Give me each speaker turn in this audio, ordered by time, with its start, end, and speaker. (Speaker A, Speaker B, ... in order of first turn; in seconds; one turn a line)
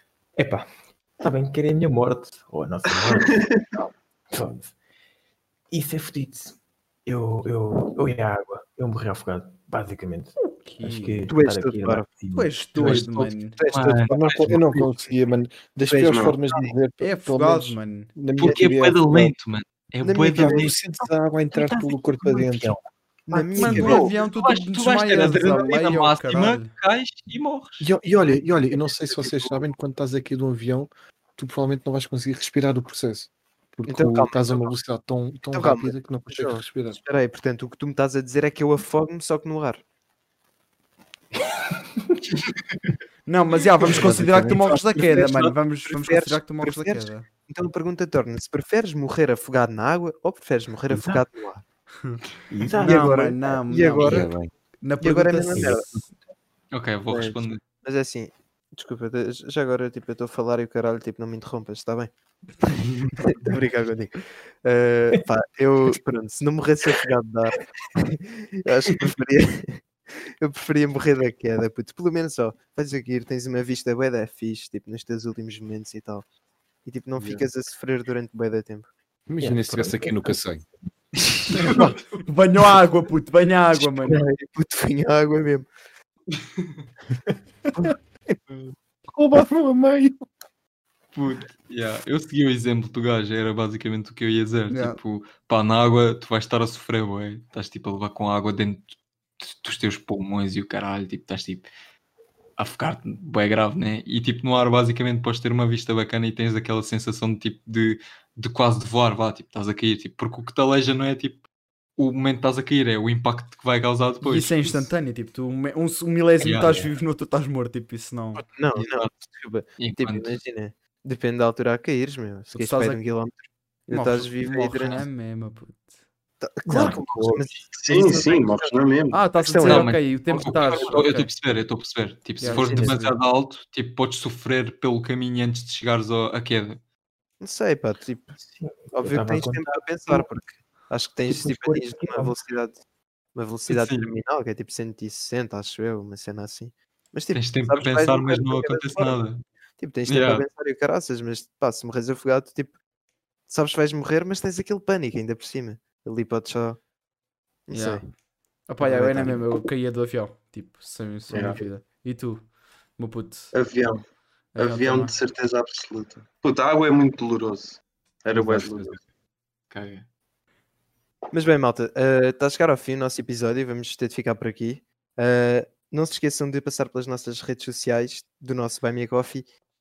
Speaker A: 0.4-3.5
Speaker B: 3.2-3.6
Speaker A: 4.3-4.7
Speaker A: 5.7-13.2
Speaker C: 10.6-11.3
Speaker D: 11.3-12.1
Speaker C: 12.3-13.6
Speaker E: 12.8-14.9
Speaker D: 13.6-15.1
Speaker F: 14.1-19.4
Speaker D: 15.9-16.7
Speaker B: 16.1-16.4
Speaker C: 17.0-18.1
Speaker D: 18.4-18.7
Speaker E: 18.4-20.8
Speaker D: 20.0-20.8
Speaker F: 20.2-22.8
Speaker A: 21.5-24.0
Speaker D: 23.3-24.1
Speaker C: 23.6-26.7
Speaker E: 23.8-27.9
Speaker F: 27.8-37.0
Speaker D: 33.9-34.7
Speaker D: 35.5-39.8
Speaker C: 43.3-47.3
Speaker F: 43.9-44.6
Speaker E: 44.6-45.5
Speaker D: 45.9-51.6
Speaker A: 50.9-51.2
Speaker A: 52.5-53.2
Speaker C: 52.8-54.2
Speaker D: 52.8-54.3
Speaker F: 54.0-54.5
Speaker C: 54.8-55.8
Speaker D: 55.0-55.9
Speaker A: 55.5-56.1
Speaker E: 56.7-57.6
Speaker D: 57.1-69.8
Speaker D: 70.4-76.2
Speaker D: 76.8-78.9
Speaker F: 79.3-80.7
Speaker A: 79.4-80.4
Speaker C: 81.5-84.2
Speaker D: 84.0-85.7
Speaker E: 86.6-86.8
Speaker F: 89.1-90.2
Speaker E: 91.1-101.7
Speaker C: 94.7-95.0
Speaker E: 102.6-111.4
Speaker E: 112.0-114.9
Speaker C: 114.2-118.4
Speaker E: 116.4-116.9
Speaker D: 118.4-125.0
Speaker E: 118.7-119.1
Speaker E: 119.8-120.4
Speaker C: 122.5-123.0
Speaker C: 123.9-125.8
Speaker D: 126.4-129.9
Speaker F: 126.7-127.1
Speaker A: 126.7-127.4
Speaker B: 127.8-129.3
Speaker C: 129.1-131.3
Speaker E: 129.5-136.8
Speaker D: 130.6-131.0
Speaker C: 132.4-133.1
Speaker D: 132.4-133.1
Speaker D: 137.4-138.4
Speaker A: 138.4-140.3
Speaker D: 138.9-142.8
Speaker A: 141.2-142.4
Speaker D: 143.3-149.2
Speaker E: 143.7-144.1
Speaker E: 147.3-149.4
Speaker D: 149.8-152.8
Speaker E: 150.1-150.5
Speaker D: 153.5-156.8
Speaker D: 157.7-158.0
Speaker C: 157.7-158.1
Speaker C: 158.7-162.4
Speaker D: 158.8-159.4
Speaker B: 161.3-161.6
Speaker C: 163.0-163.5
Speaker B: 163.5-164.0
Speaker C: 164.6-165.2
Speaker B: 164.6-169.0
Speaker F: 168.4-168.9
Speaker E: 169.7-170.1
Speaker D: 171.3-179.5